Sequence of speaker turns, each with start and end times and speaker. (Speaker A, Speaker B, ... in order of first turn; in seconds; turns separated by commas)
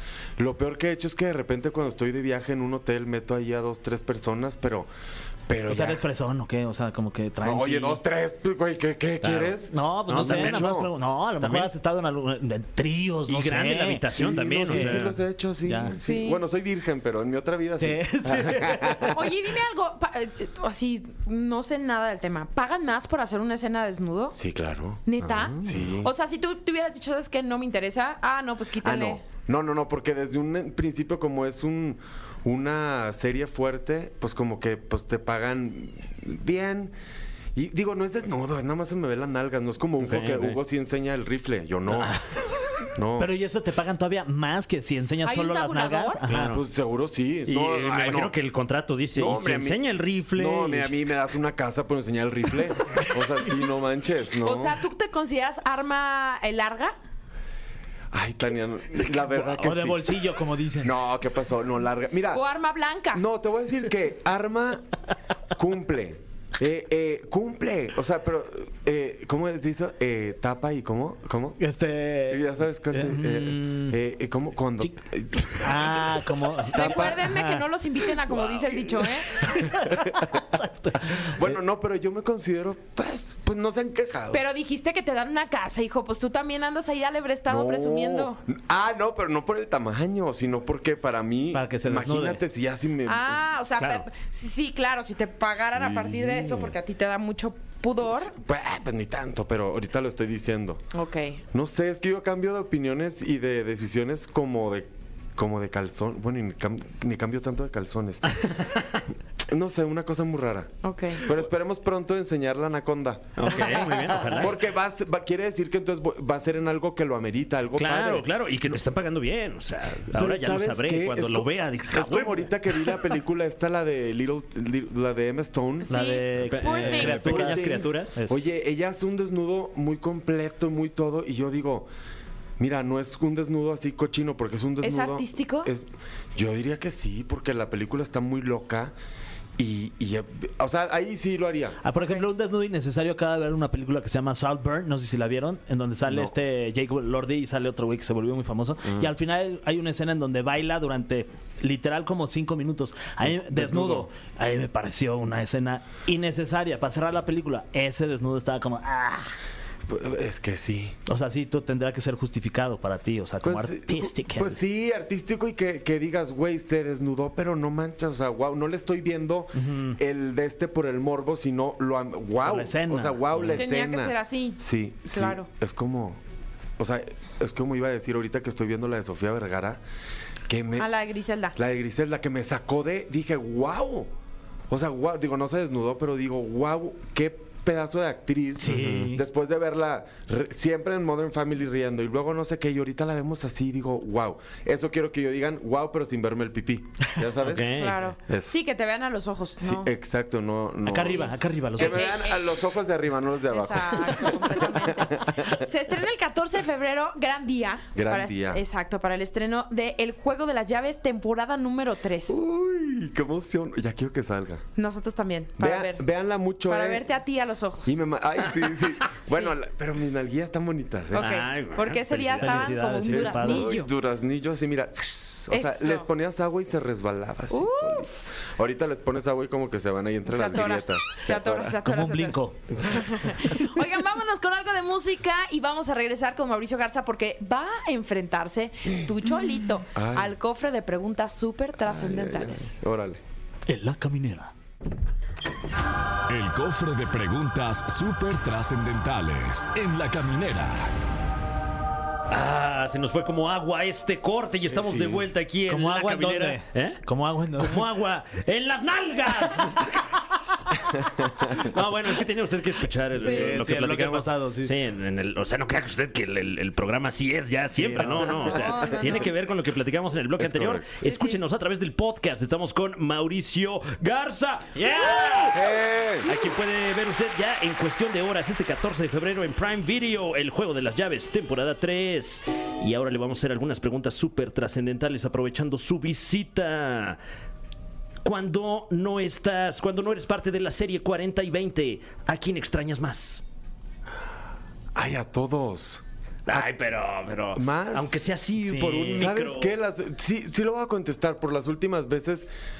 Speaker A: 0.4-4.9, Speaker A: 5.5-6.0, Speaker B: 5.7-8.0, Speaker A: 7.4-10.9, Speaker C: 9.2-9.5, Speaker B: 9.6-14.1, Speaker C: 10.1-10.8, Speaker C: 11.4-11.7, Speaker C: 13.3-15.2, Speaker A: 14.1-19.3, Speaker B: 14.7-15.1, Speaker B: 15.6-15.9, Speaker D: 15.9-16.4, Speaker B: 17.8-19.1, Speaker C: 18.4-18.7, Speaker D: 19.1-24.4, Speaker A: 24.3-25.1, Speaker D: 25.1-29.2, Speaker C: 25.2-25.8, Speaker A: 25.6-26.1, Speaker A: 28.8-36.9, Speaker A: 37.5-42.1, Speaker C: 40.0-40.6, Speaker A: 42.9-43.3, Speaker B: 43.2-46.6, Speaker D: 45.2-46.2, Speaker C: 46.3-46.6, Speaker A: 46.4-48.3, Speaker C: 47.5-50.9, Speaker A: 49.1-49.8, Speaker A: 50.3-54.8, Speaker D: 54.4-56.9, Speaker A: 58.1-60.2, Speaker B: 59.3-61.0, Speaker A: 60.8-62.4, Speaker D: 62.3-63.2, Speaker A: 63.1-64.9, Speaker A: 65.5-71.6, Speaker B: 71.6-73.9, Speaker A: 72.3-76.1, Speaker B: 75.5-77.7, Speaker A: 76.7-77.3, Speaker D: 76.7-79.4, Speaker A: 78.4-80.4, Speaker B: 79.4-81.5, Speaker A: 81.0-84.4, Speaker D: 84.3-88.4, Speaker A: 87.5-93.4, Speaker B: 91.5-92.4, Speaker D: 93.0-98.3, Speaker A: 95.6-96.8, Speaker A: 98.0-100.8, Speaker D: 100.9-101.4, Speaker A: 101.5-108.5, Speaker C: 108.4-109.0, Speaker A: 109.5-118.3, Speaker D: 110.8-111.3, Speaker C: 113.4-114.6, Speaker D: 113.5-114.1, Speaker C: 117.8-123.0, Speaker A: 120.1-125.9, Speaker D: 125.9-127.6, Speaker B: 125.9-128.4, Speaker C: 126.5-128.2, Speaker A: 127.3-131.9, Speaker A: 132.6-138.9, Speaker D: 134.8-135.7, Speaker A: 139.6-141.8, Speaker B: 141.8-159.3, Speaker D: 141.9-142.2, Speaker A: 153.2-154.1, Speaker A: 159.9-160.9, Speaker B: 161.1-164.6, Speaker A: 163.4-176.2, Speaker B: 169.5-170.0, Speaker B: 172.4-173.6, Speaker D: 173.5-174.6, Speaker D: 175.1-175.4, Speaker A: 176.8-179.8, Speaker A: 180.5-180.9, Speaker D: 180.8-181.5, Speaker A: 181.5-184.1, Speaker A: 184.7-197.7, Speaker B: 188.6-189.2, Speaker C: 188.7-189.1, Speaker C: 197.4-198.1, Speaker D: 197.7-199.9, Speaker A: 198.3-198.5, Speaker A: 199.6-205.6, Speaker B: 200.8-202.1, Speaker D: 201.1-202.5, Speaker D: 203.5-212.4, Speaker A: 207.9-208.6, Speaker A: 212.3-214.6, Speaker D: 214.8-216.0, Speaker A: 215.6-217.1, Speaker D: 216.7-218.0, Speaker A: 217.8-221.3, Speaker D: 219.3-219.6, Speaker D: 221.1-223.9, Speaker C: 221.1-223.1, Speaker B: 222.3-223.7, Speaker A: 223.1-231.8, Speaker D: 225.5-226.1, Speaker D: 227.5-228.1, Speaker D: 230.2-242.7, Speaker B: 231.8-232.6, Speaker A: 239.9-240.3, Speaker A: 241.8-243.2, Speaker B: 243.7-244.5, Speaker E: 246.3-250.9, Speaker C: 252.3-257.0, Speaker A: 254.7-255.3, Speaker B: 255.7-257.9, Speaker C: 257.6-275.7, Speaker B: 263.1-264.7, Speaker D: 263.2-263.6, Speaker B: 267.8-268.6, Speaker A: 268.0-268.3, Speaker D: 268.4-269.4, Speaker A: 270.4-271.0, Speaker D: 271.0-271.4, Speaker A: 275.5-276.3, Speaker C: 276.2-287.2, Speaker C: 288.2-293.4, Speaker A: 294.9-296.7, Speaker C: 296.5-299.7, Speaker A: 297.5-298.2, Speaker B: 298.6-299.3, Speaker A: 299.1-302.5